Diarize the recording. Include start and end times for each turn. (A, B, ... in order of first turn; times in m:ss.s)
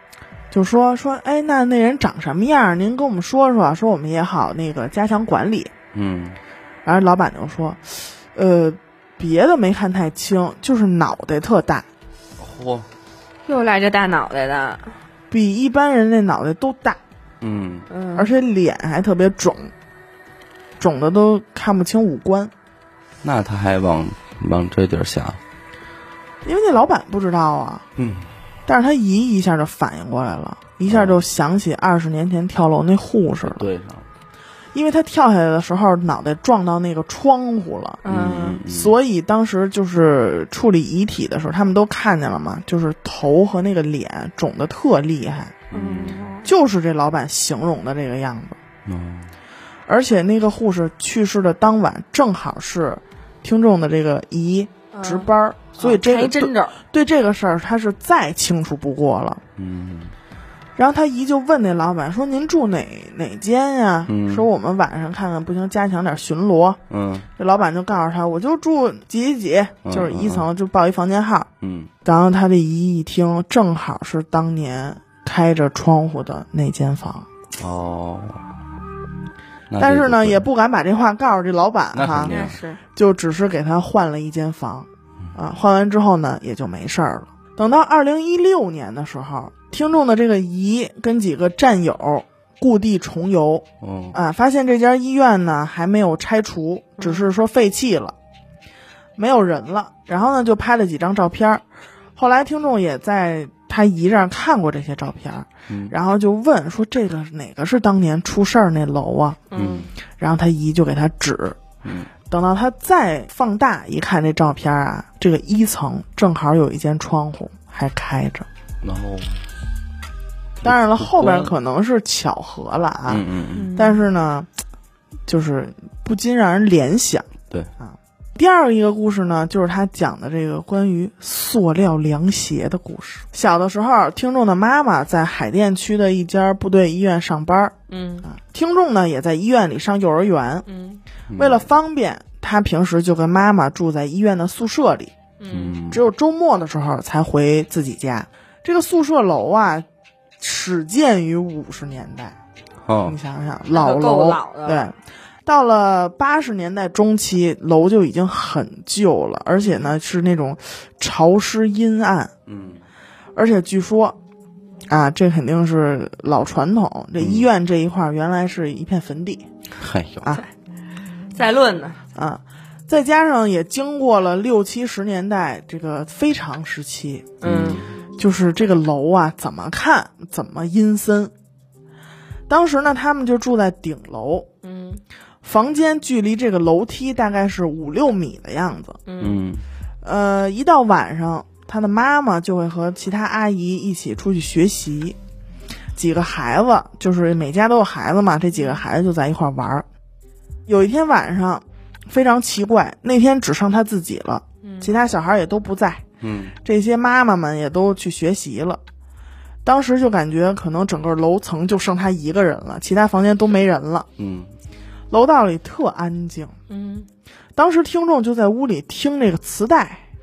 0:00.5-0:05.7 A
0:05.9-0:06.4 B
0:06.8-0:11.9 A
0:12.4-0:12.9 B
0:13.5-0:15.0 C
0:15.3-0:17.0 A
0:17.4-0:17.9 B
0:17.9-0:18.3 C
0:18.2-0:19.7 A
0:20.8-0:22.5 A
0:23.2-0:25.4 B
0:26.4-0:27.9 A
0:28.0-0:28.3 B
0:28.7-0:33.7 A
0:30.8-0:31.2 B
0:33.4-0:34.1 B
0:34.7-0:38.0 A
0:38.0-0:38.6 C
0:38.0-0:39.0 B
0:38.7-0:45.6 A
0:45.7-0:46.3 B
0:45.7-0:46.5 C
0:46.4-0:48.6 A
0:48.8-0:49.3 B
0:49.9-0:59.4 A
0:54.9-0:56.8 C
0:59.6-1:00.2 B
1:00.8-1:06.8 A
1:04.1-1:04.5 B
1:06.9-1:07.3 B
1:07.4-1:11.5 A
1:09.8-1:10.5 B
1:11.6-1:11.9 B
1:12.0-1:17.3 A
1:17.6-1:18.4 B
1:19.7-1:20.4 B
1:19.8-1:38.2 A
1:21.9-1:22.6 B
1:22.3-1:22.8 C
1:33.8-1:34.2 B
1:37.0-1:37.3 C
1:39.2-1:41.6 A
1:42.2-1:49.4 A
1:45.7-1:45.9 B
1:49.5-1:49.9 C
1:49.6-1:49.9 B
1:50.2-1:51.6 A
1:51.8-1:52.1 B
1:52.3-1:58.5 A
1:58.8-1:59.5 B
2:00.6-2:01.5 B
2:00.6-2:04.5 A
2:03.1-2:03.7 B
2:03.6-2:04.0 C
2:05.3-2:07.3 A
2:07.8-2:20.7 A
2:17.9-2:18.3 C
2:20.7-2:21.0 C
2:21.3-2:21.6 B
2:21.4-2:25.1 A
2:25.4-2:25.8 C
2:25.5-2:26.0 B
2:25.9-2:29.9 A
2:30.4-2:32.4 A
2:32.8-2:33.2 B
2:33.0-2:42.3 A
2:33.7-2:34.9 C
2:39.6-2:39.9 C
2:42.5-2:42.8 B
2:43.4-2:44.2 A
2:44.9-2:49.4 A
2:47.2-2:47.5 B
2:49.8-2:50.3 B
2:51.3-2:52.0 C
2:52.2-2:57.3 A
2:57.4-2:57.9 C
2:57.4-2:58.0 B
2:58.2-3:01.3 A
3:02.5-3:04.5 A
3:04.6-3:05.0 C
3:05.4-3:09.0 A
3:09.1-3:09.4 C
3:09.2-3:09.6 B
3:10.0-3:15.2 A
3:16.0-3:19.9 A
3:18.5-3:18.8 C
3:20.7-3:26.0 A
3:24.6-3:24.9 C
3:26.2-3:26.6 B
3:26.6-3:28.8 A
3:29.6-3:34.1 A
3:34.2-3:34.6 B
3:35.1-3:36.6 A
3:36.7-3:37.1 C
3:37.6-3:40.0 A